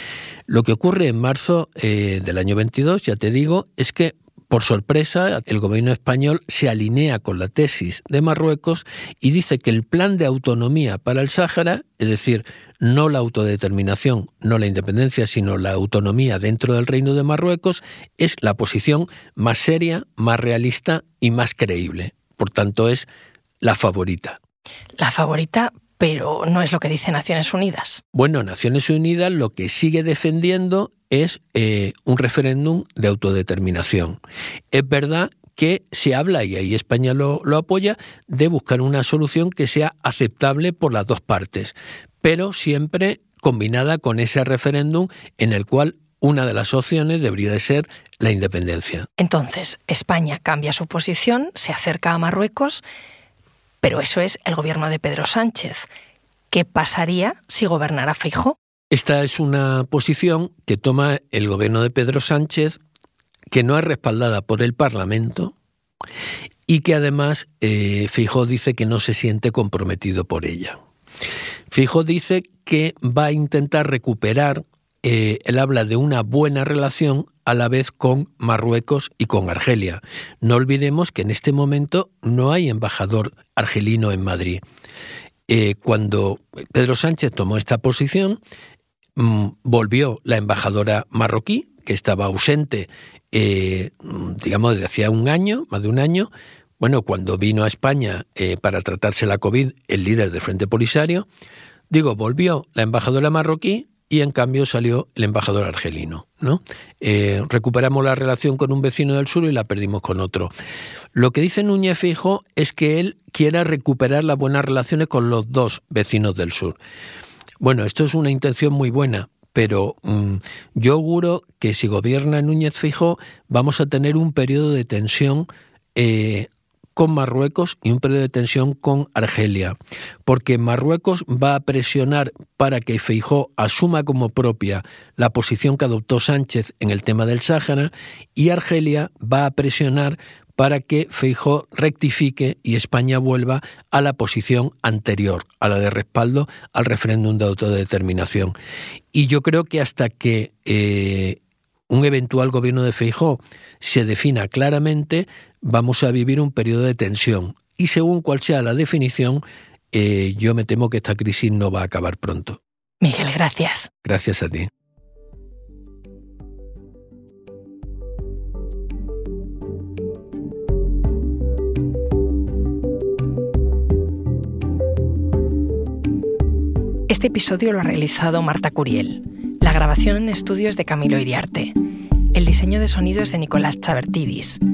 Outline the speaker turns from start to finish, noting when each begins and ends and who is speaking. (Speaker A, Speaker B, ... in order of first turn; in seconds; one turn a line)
Speaker A: 0.5-23.1
Speaker A: 23.6-24.4
Speaker B: 25.0-28.0
Speaker A: 28.1-34.2
Speaker A: 34.7-49.1
Speaker B: 49.2-52.8
Speaker B: 53.8-55.9
Speaker B: 56.5-58.5
Speaker A: 58.9-62.8
Speaker A: 63.5-65.5
Speaker A: 66.7-70.8
Speaker A: 71.7-84.6
Speaker A: 85.5-88.4
Speaker A: 89.2-101.3
Speaker A: 101.9-110.5
Speaker A: 111.1-116.8
Speaker A: 117.6-148.5
Speaker A: 149.1-162.6
Speaker B: 163.0-163.9
Speaker A: 164.0-164.7
Speaker B: 177.1-181.8
Speaker B: 182.3-184.6